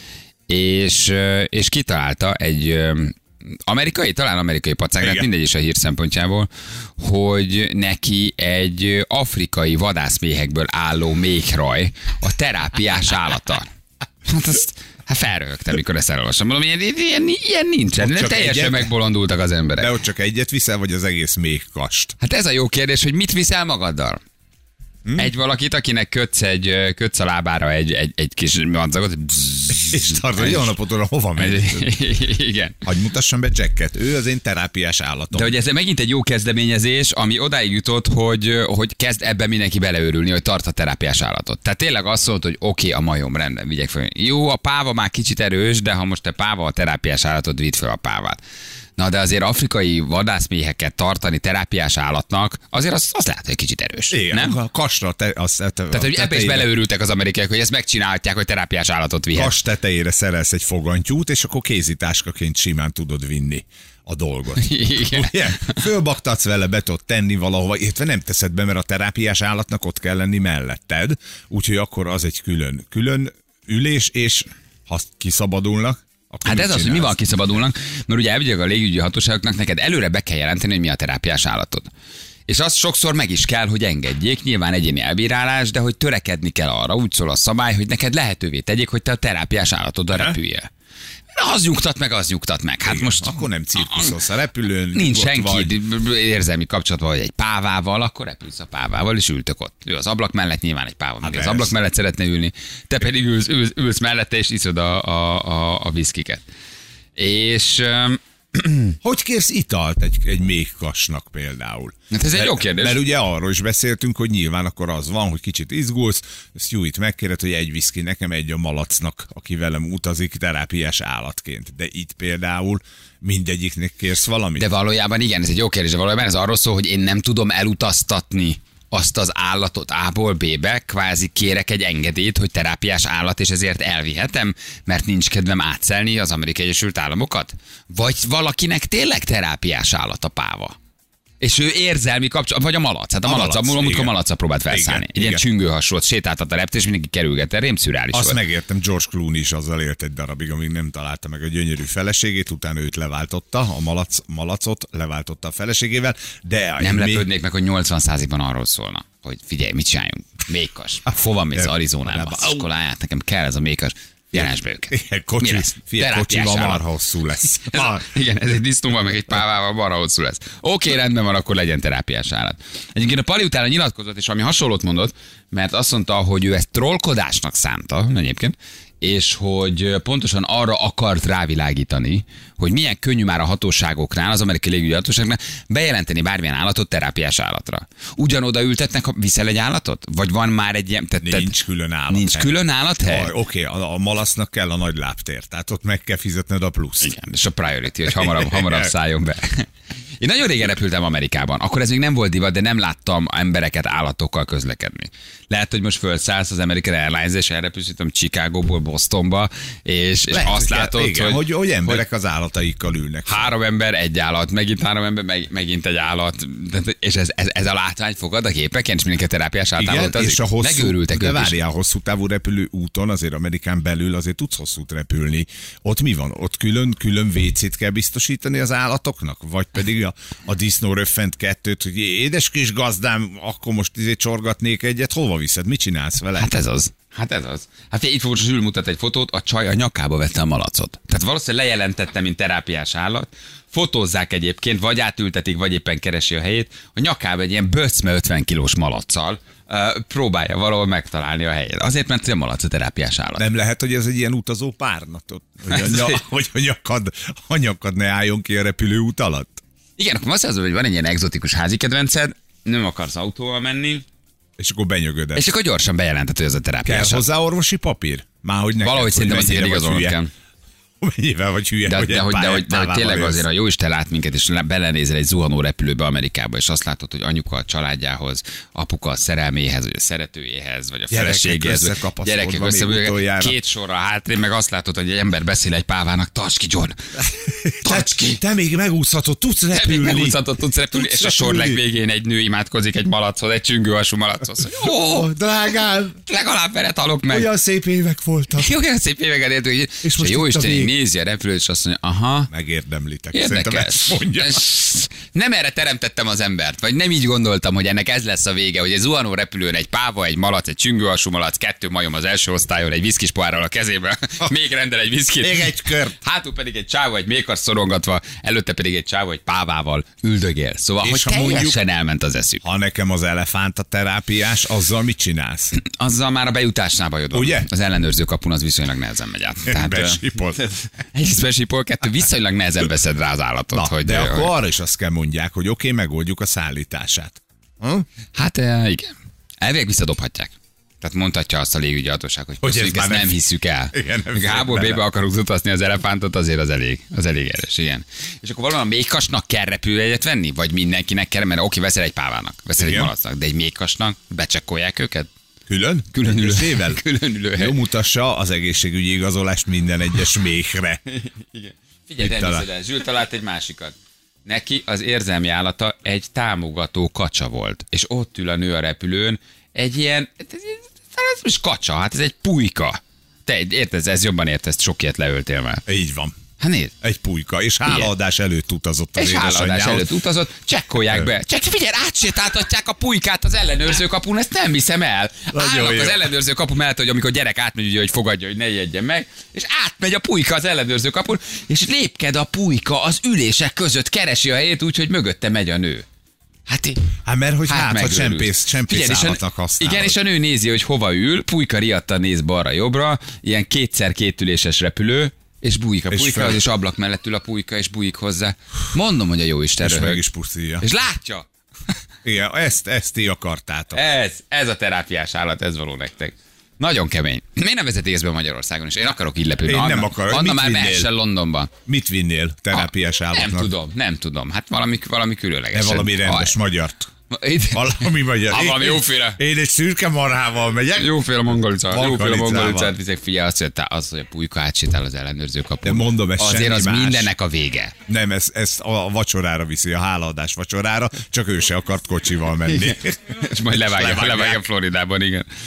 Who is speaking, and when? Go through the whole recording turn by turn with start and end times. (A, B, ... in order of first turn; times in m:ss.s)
0:00.5-0:13.7 A
0:05.0-0:05.3 B
0:14.2-0:19.9 A
0:18.0-0:18.9 B
0:19.8-0:22.2 B
0:22.2-0:24.2 A
0:25.0-0:25.3 B
0:25.2-0:30.7 A
0:29.7-0:31.9 B
0:31.4-0:32.8 A
0:32.8-0:35.6 B
0:35.3-0:48.4 A
0:49.0-0:54.6 A
0:54.1-0:56.7 B
0:55.9-0:59.6 A
0:59.4-1:17.2 B
1:04.6-1:05.8 A
1:16.4-1:21.9 A
1:22.5-1:30.7 A
1:30.1-1:30.4 B
1:31.3-1:34.2 A
1:32.8-1:35.7 B
1:34.9-1:46.4 A
1:41.2-1:41.7 B
1:47.2-1:49.0 A
1:49.0-2:04.7 B
1:52.1-1:53.0 A
2:04.6-2:20.8 A
2:21.4-2:28.4 A
2:23.2-2:24.2 B
2:24.7-2:25.4 B
2:28.1-2:37.3 B
2:36.8-2:46.8 A
2:41.5-2:42.7 B
2:44.3-2:48.1 B
2:47.6-3:11.6 A
3:11.2-3:17.1 B
3:12.1-3:13.3 A
3:17.0-3:19.7 A
3:18.1-3:18.9 B
3:20.2-3:32.0 A
3:30.3-3:33.5 B
3:33.3-3:41.6 A
3:39.8-3:56.5 B
3:56.4-4:13.4 A
4:13.4-4:19.6 B
4:15.7-4:16.2 A
4:20.0-4:24.0 A
4:24.6-4:25.5 B
4:25.4-4:27.2 A
4:26.9-4:30.2 B
4:28.8-4:30.3 A
4:31.0-4:33.4 B
4:31.8-4:47.3 A
4:41.1-4:43.6 B
4:47.3-4:51.8 B
4:47.8-4:48.4 A
4:49.7-4:55.3 A
4:54.6-4:56.2 B
4:56.3-4:57.5 A
4:57.3-4:58.7 B
4:58.6-5:02.5 A
5:00.0-5:00.9 B
5:02.5-5:04.7 B
5:03.3-5:22.6 A
5:15.4-5:16.2 B
5:21.0-5:21.8 B
5:22.6-5:25.8 B
5:25.7-5:34.5 A
5:27.3-5:27.7 B
5:29.7-5:30.6 B
5:33.7-5:38.1 B
5:38.4-5:55.3 A
5:42.6-5:43.4 B
5:43.9-5:45.1 B
5:52.8-5:53.1 B
5:55.7-6:01.0 B
5:56.1-5:57.8 A
6:01.1-6:15.8 A
6:02.2-6:02.7 B
6:15.9-6:16.4 B
6:16.6-6:16.9 A
6:17.0-6:20.1 B
6:17.8-6:18.1 A
6:19.2-6:36.1 A
6:25.5-6:26.3 B
6:36.7-6:37.1 A
6:37.2-6:40.2 B
6:37.7-6:50.2 A
6:46.1-6:46.6 B
6:49.8-6:50.9 B
6:50.8-6:51.5 A
6:52.2-6:54.0 B
6:53.9-7:01.7 A
6:59.7-7:01.1 B
7:01.9-7:03.7 B
7:02.7-7:06.6 A
7:05.7-7:07.1 B
7:07.3-7:09.4 A
7:07.7-7:11.2 B
7:11.0-7:17.9 A
7:11.9-7:13.0 B
7:15.8-7:17.3 B
7:18.1-7:24.6 B
7:22.7-7:25.5 A